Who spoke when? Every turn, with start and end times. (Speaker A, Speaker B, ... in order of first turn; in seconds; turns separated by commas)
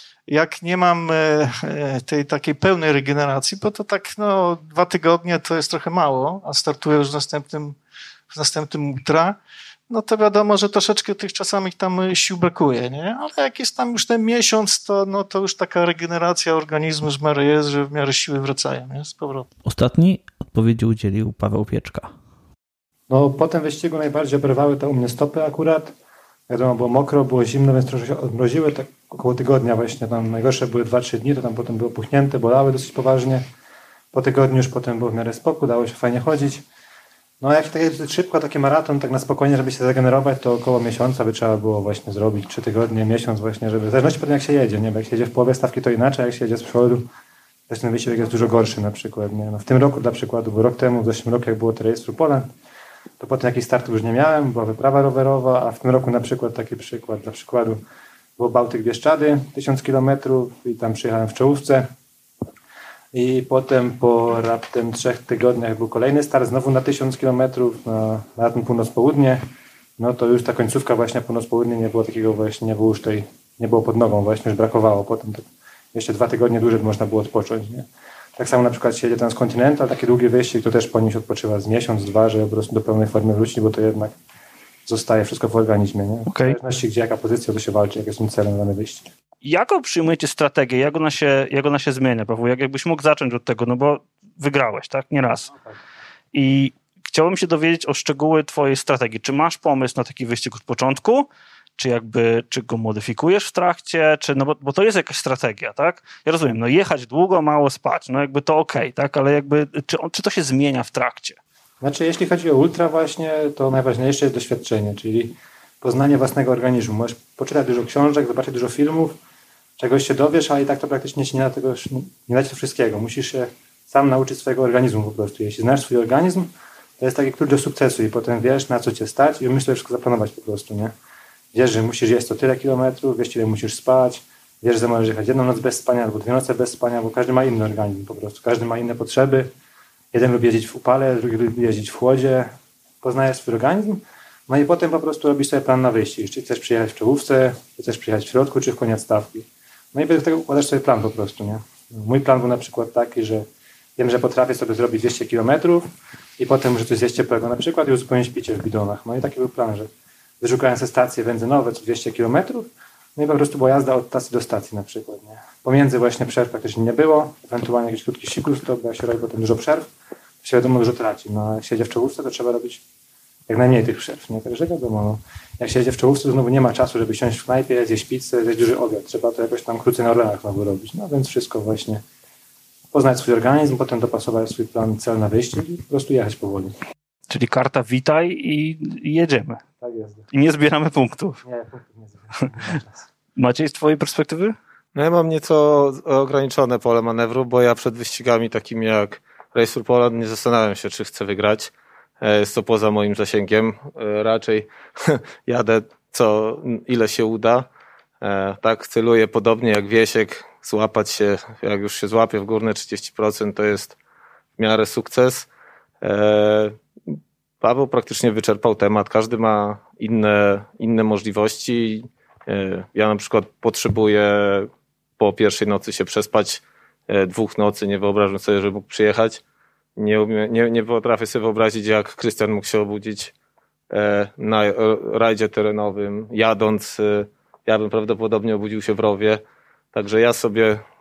Speaker A: 0.3-7.8, Speaker A: 8.3-9.4, Speaker A: 9.9-19.5, Speaker B: 19.6-22.1, Speaker C: 23.1-25.9, Speaker C: 26.5-33.4, Speaker C: 34.1-36.6, Speaker C: 37.4-47.1, Speaker C: 47.7-52.5, Speaker C: 53.2-57.8, Speaker C: 58.4-61.9, Speaker C: 63.1-69.4, Speaker C: 70.0-84.1, Speaker C: 84.8-89.1, Speaker D: 86.3-86.5, Speaker D: 89.4-95.5, Speaker D: 96.3-111.4, Speaker C: 111.8-119.2, Speaker C: 119.8-130.9, Speaker C: 131.5-139.5, Speaker C: 140.1-159.9, Speaker C: 160.4-169.9, Speaker C: 170.4-172.8, Speaker C: 173.5-182.0, Speaker C: 182.9-186.7, Speaker D: 187.3-189.6, Speaker C: 189.8-190.2, Speaker D: 190.3-191.4, Speaker C: 191.4-193.0, Speaker D: 193.3-194.5, Speaker E: 194.9-207.7, Speaker E: 208.2-213.9, Speaker E: 214.6-215.5, Speaker E: 216.0-229.4, Speaker E: 230.0-233.3, Speaker E: 233.9-239.4, Speaker E: 239.9-240.8